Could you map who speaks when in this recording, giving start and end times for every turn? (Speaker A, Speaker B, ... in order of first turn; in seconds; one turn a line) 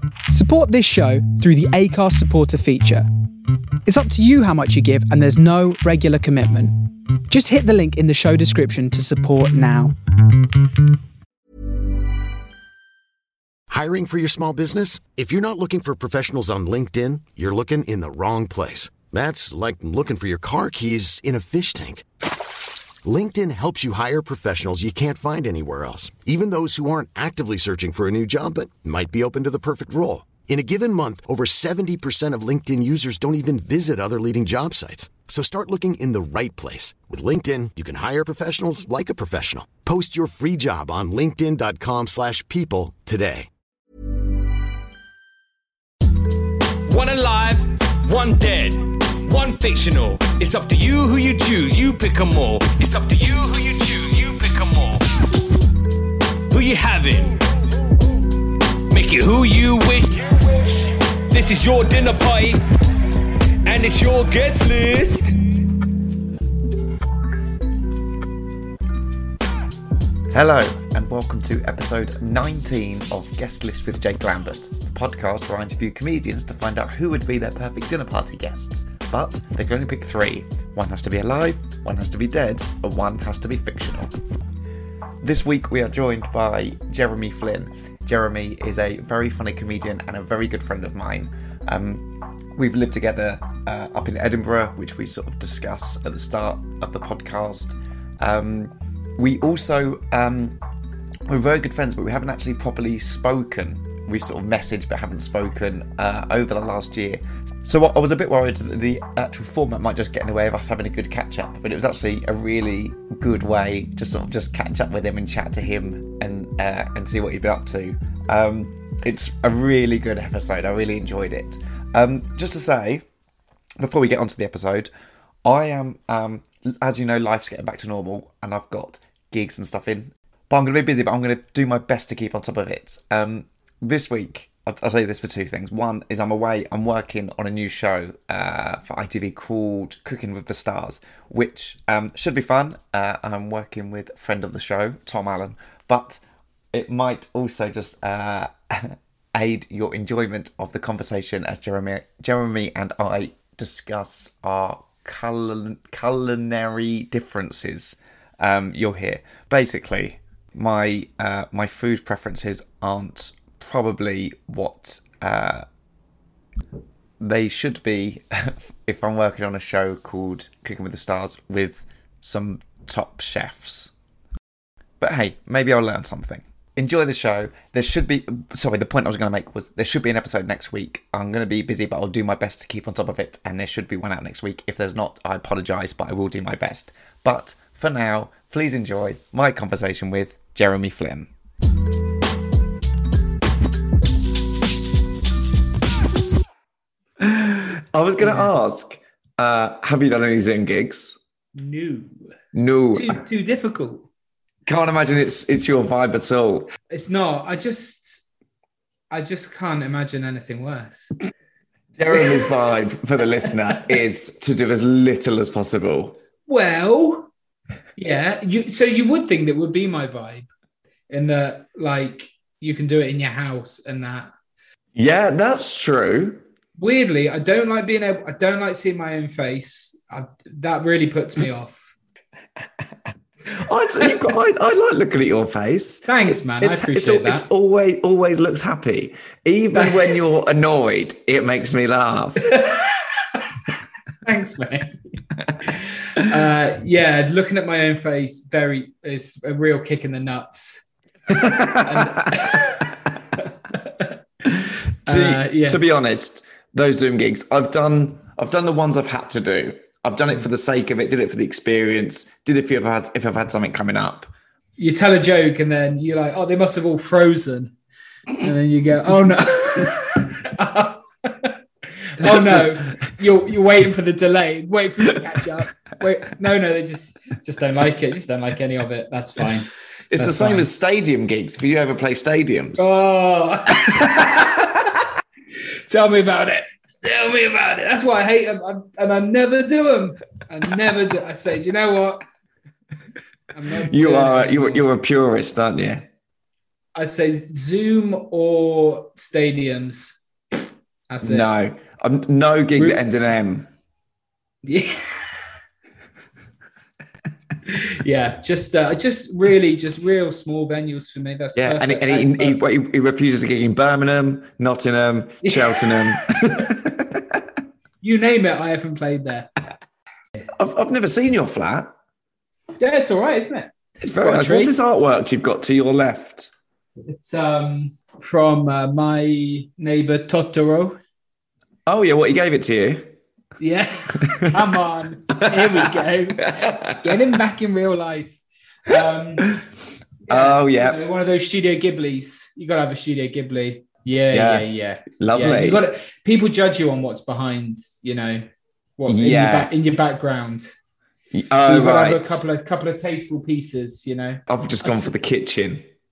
Speaker A: 0.3-3.0
Speaker A: 3.9-6.8
Speaker A: 7.3-9.9
Speaker B: 13.7-22.1
Speaker B: 23.0-43.5
Speaker C: 46.9-55.0
Speaker C: 56.5-57.4
Speaker C: 58.9-62.6
Speaker C: 63.6-65.4
Speaker D: 70.3-84.1
Speaker D: 85.2-100.6
Speaker D: 101.2-123.0
Speaker D: 123.8-124.9
Speaker D: 125.4-146.2
Speaker D: 146.7-165.7
Speaker D: 167.2-173.9
Speaker D: 175.0-191.3
Speaker D: 197.2-201.2
Speaker E: 198.2-198.5
Speaker E: 201.5-202.1
Speaker D: 202.5-203.2
Speaker E: 202.9-204.1
Speaker D: 204.7-206.7
Speaker E: 206.9-208.2
Speaker E: 209.1-211.1
Speaker D: 211.9-216.2
Speaker E: 216.5-217.3
Speaker E: 217.9-220.5
Speaker E: 221.1-224.3
Speaker D: 224.9-226.4
Speaker E: 226.8-231.9
Speaker D: 233.5-242.5
Speaker E: 236.1-237.4
Speaker E: 239.7-240.2
Speaker E: 242.4-243.0
Speaker E: 244.2-245.0
Speaker E: 245.7-250.8
Speaker D: 251.3-252.6
Speaker E: 251.8-252.8
Speaker E: 253.4-254.1
Speaker E: 255.1-255.8
Speaker D: 255.1-264.3
Speaker E: 264.8-267.7
Speaker E: 268.4-280.7
Speaker D: 272.2-272.8
Speaker D: 280.1-282.9
Speaker E: 282.8-284.8
Speaker D: 283.9-284.5
Speaker E: 285.9-292.2
Speaker E: 293.5-294.9
Speaker D: 293.9-296.1
Speaker E: 296.9-300.2
Speaker E: 301.1-301.5
Speaker D: 301.2-303.7
Speaker E: 304.6-305.2
Speaker E: 307.7-312.6
Speaker D: 311.5-317.4
Speaker E: 315.4-316.1
Speaker E: 318.0-319.5
Speaker D: 320.5-321.9
Speaker E: 322.8-324.8
Speaker D: 324.0-326.5
Speaker E: 327.1-331.0
Speaker D: 331.9-333.1
Speaker E: 333.6-339.5
Speaker D: 336.6-337.1
Speaker D: 339.4-339.7
Speaker D: 340.3-341.0
Speaker E: 340.3-348.4
Speaker D: 344.3-345.8
Speaker E: 349.0-350.7
Speaker D: 349.1-349.7
Speaker D: 351.3-352.4
Speaker E: 351.6-355.1
Speaker D: 354.5-355.8